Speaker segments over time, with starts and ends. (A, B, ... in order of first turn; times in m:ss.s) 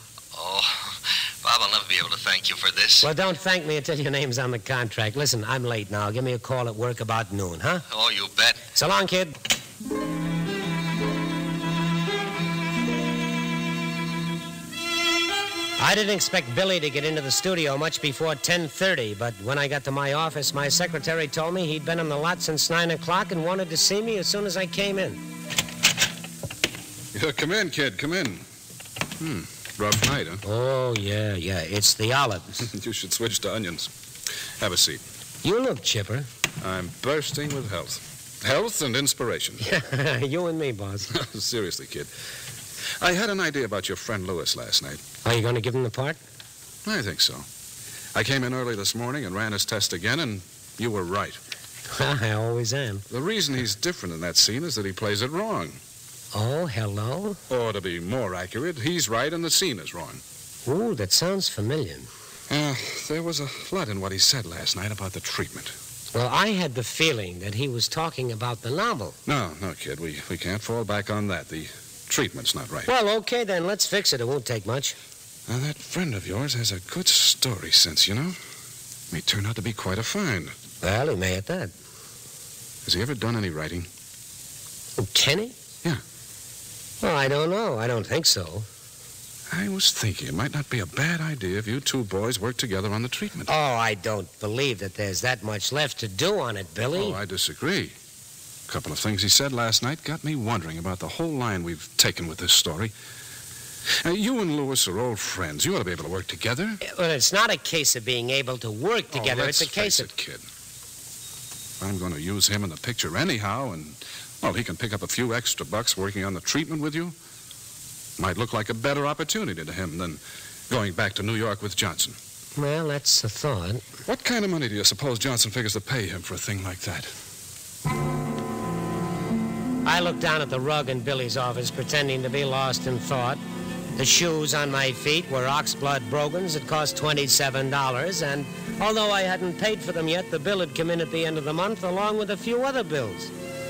0:00.3-0:03.1 A
0:03.0-0:07.8 B
0:07.9-0:08.6 A
0:08.7-0:09.4 B
0:15.8-0:25.2 B
0:27.1-0:28.4 C
0:29.2-0:30.4 C
0:30.4-0:32.6 B
0:32.6-0:33.9 C
0:34.6-0:35.0 C
0:35.4-0:36.3 B
0:36.6-0:39.6 C
0:39.6-0:41.1 B
0:41.1-0:42.1 C
0:43.0-0:45.0 C
0:45.2-0:46.2 B
0:46.8-0:47.4 C
0:48.1-0:51.4 C
0:51.9-0:53.0 B
0:53.1-0:55.8 C
0:56.3-0:57.4 B
0:57.5-1:00.2 C
1:00.6-1:02.1 B
1:02.5-1:05.7 C
1:06.1-1:09.2 B
1:09.3-1:12.9 C
1:12.8-1:15.0 B
1:15.5-1:18.4 C
1:19.1-1:20.5 C
1:20.8-1:21.7 B
1:22.8-1:23.9 C
1:25.0-1:25.6 B
1:27.0-1:28.6 B
1:29.5-1:33.5 C
1:33.5-1:37.2 B
1:36.9-1:37.9 C
1:38.7-1:42.9 C
1:44.0-1:46.8 C
1:46.8-1:50.1 B
1:49.1-1:50.4 C
1:51.8-1:57.1 C
1:58.2-2:02.2 C
2:02.6-2:03.8 B
2:04.1-2:07.1 C
2:09.8-2:13.4 B
2:14.0-2:23.3 B